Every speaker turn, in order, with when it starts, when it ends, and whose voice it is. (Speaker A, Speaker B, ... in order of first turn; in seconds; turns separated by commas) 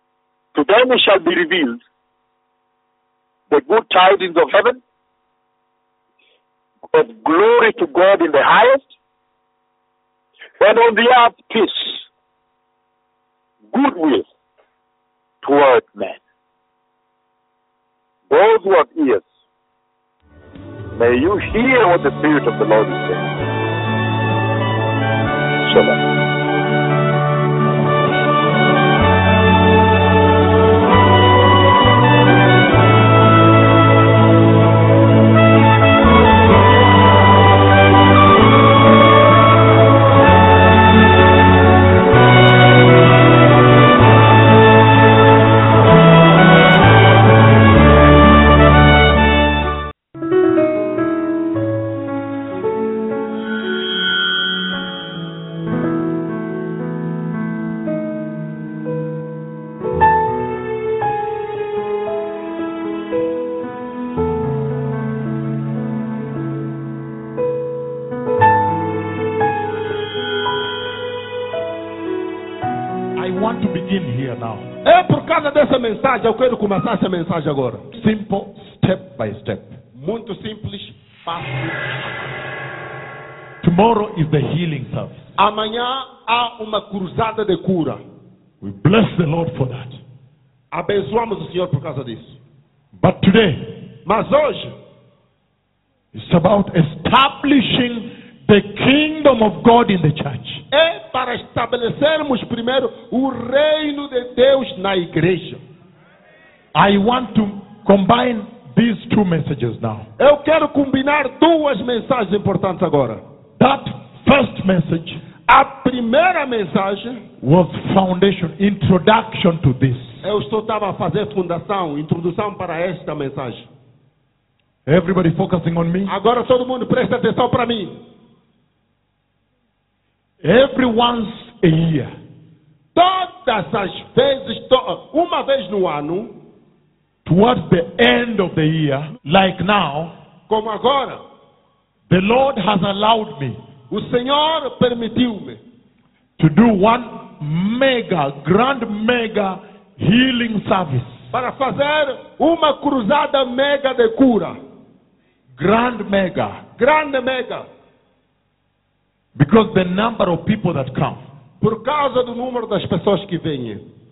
Speaker A: 0.5-1.8, Speaker A: 3.5-4.8, Speaker A: 6.9-8.8, Speaker A: 10.6-12.0, Speaker A: 13.7-14.2, Speaker A: 15.4-16.2, Speaker A: 18.3-19.2, Speaker A: 20.9-23.4, Speaker A: 25.6-26.0, Speaker B: 73.2-74.6, Speaker C: 74.8-77.9, Speaker B: 77.9-79.8, Speaker C: 79.9-81.8, Speaker B: 83.6-85.3, Speaker C: 85.4-88.0, Speaker B: 88.6-90.0, Speaker C: 90.7-92.3, Speaker B: 93.0-93.9, Speaker C: 94.0-94.7, Speaker B: 96.1-100.6, Speaker C: 100.7-105.6, Speaker B: 106.7-110.1, Speaker C: 110.2-113.2, Speaker B: 113.6-115.2, Speaker C: 115.5-117.2, Speaker B: 117.4-120.2, Speaker C: 120.2-123.7, Speaker B: 124.8-126.1, Speaker C: 126.1-128.0, Speaker B: 130.4-132.1, Speaker C: 132.9-136.3, Speaker B: 137.2-140.2, Speaker C: 140.5-141.2, Speaker B: 142.1-143.6, Speaker C: 143.9-145.6, Speaker B: 146.4-151.3, Speaker C: 151.3-154.6, Speaker B: 155.6-156.6, Speaker C: 156.8-157.7, Speaker B: 159.3-161.2, Speaker C: 161.6-163.8